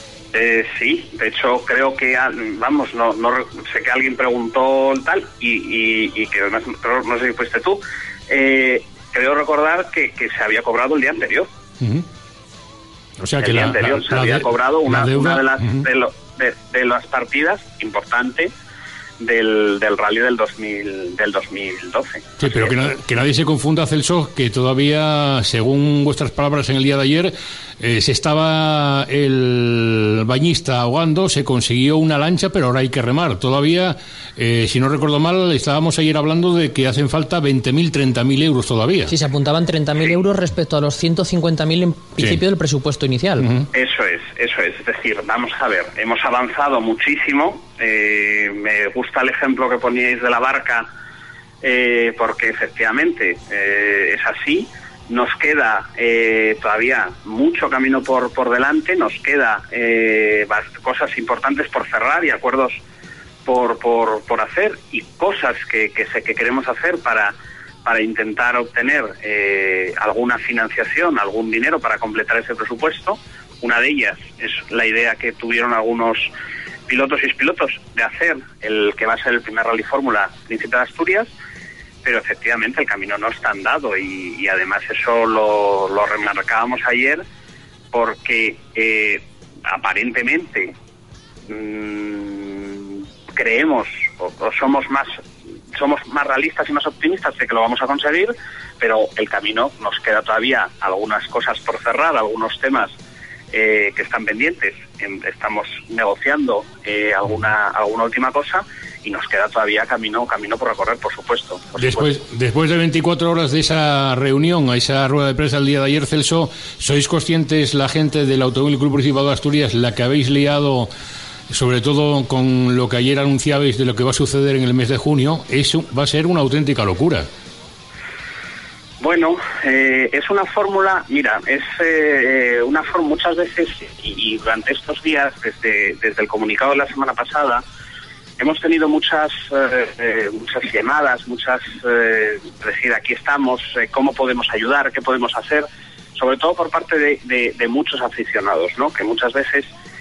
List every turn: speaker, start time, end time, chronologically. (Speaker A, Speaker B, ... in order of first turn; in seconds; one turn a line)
Speaker A: 0.3-11.5
Speaker B: 13.2-15.8
Speaker A: 13.4-18.5
Speaker A: 19.2-22.7
Speaker B: 22.4-39.1
Speaker C: 39.1-43.5
Speaker B: 43.4-43.7
Speaker A: 43.7-50.9
Speaker A: 51.6-62.8
Speaker A: 63.4-67.3
Speaker A: 67.8-76.3
Speaker A: 76.9-81.3
Speaker A: 82.0-87.2
Speaker A: 87.9-90.7
Speaker A: 91.5-95.2
Speaker A: 95.7-102.9
Speaker A: 103.5-112.1
Speaker B: 111.8-120.9
Speaker B: 121.5-127.3
Speaker A: 129.0-137.6
Speaker A: 138.4-149.7